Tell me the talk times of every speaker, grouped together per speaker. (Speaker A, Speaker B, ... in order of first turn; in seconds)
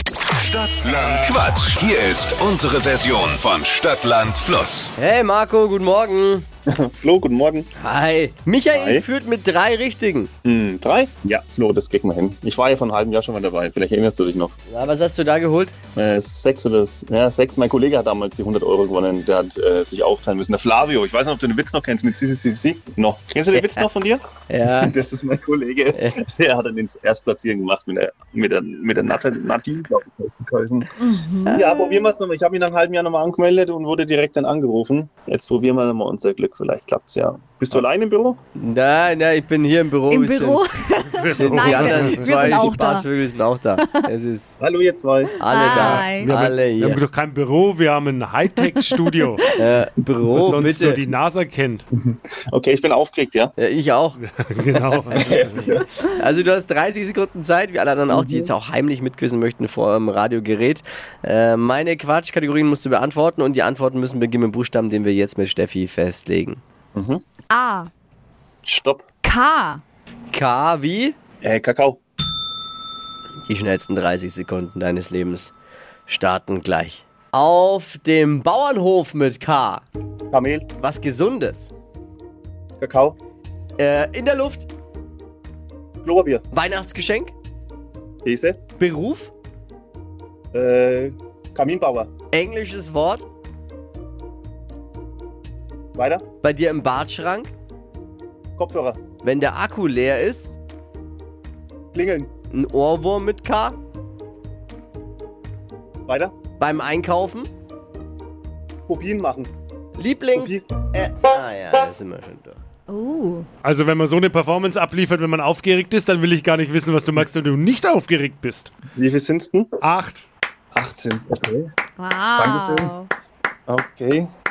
Speaker A: 0.4-4.9
Speaker B: 5.0-6.5, 7.8-10.3, 14.7-15.8, 23.5-23.8, 24.5-24.9, 38.6-40.6, 41.3-44.6, 45.4-47.0, 49.5-51.0, 53.6-54.2, 56.1-66.6, 70.3-71.2, 73.5-75.5, 76.1-79.8, 80.8-81.7, 83.8-84.7, 86.5-87.3, 88.8-89.3, 92.3-93.2, 96.4-97.5, 99.2-100.5, 102.5-103.8, 106.6-107.5, 110.0-112.6
Speaker C: 6.7-7.7, 8.7-9.0, 10.4-14.6, 15.9-24.3, 24.8-30.9, 31.5-38.4, 44.6-45.4, 51.9-53.5, 55.1-55.9, 58.1-58.5, 67.0-67.2, 68.7-69.0, 71.4-72.0, 80.3-80.7, 82.8-83.2, 86.0-86.4, 88.2-88.6, 90.5-92.1, 96.0-96.2, 98.6-99.0, 101.9-102.3, 106.1-106.3, 108.9-109.5, 110.4-110.6, 119.0-119.7, 120.8-121.7, 122.3-122.9, 123.7-124.3
Speaker D: 31.0-32.1, 40.1-43.0, 43.8-44.1, 45.4-46.3, 67.5-67.9, 69.2-69.8, 112.9-113.5, 122.0-123.1
Speaker E: 41.1-42.7, 45.7-49.5, 50.4-51.8, 54.2-55.8, 113.6-118.7, 119.8-120.2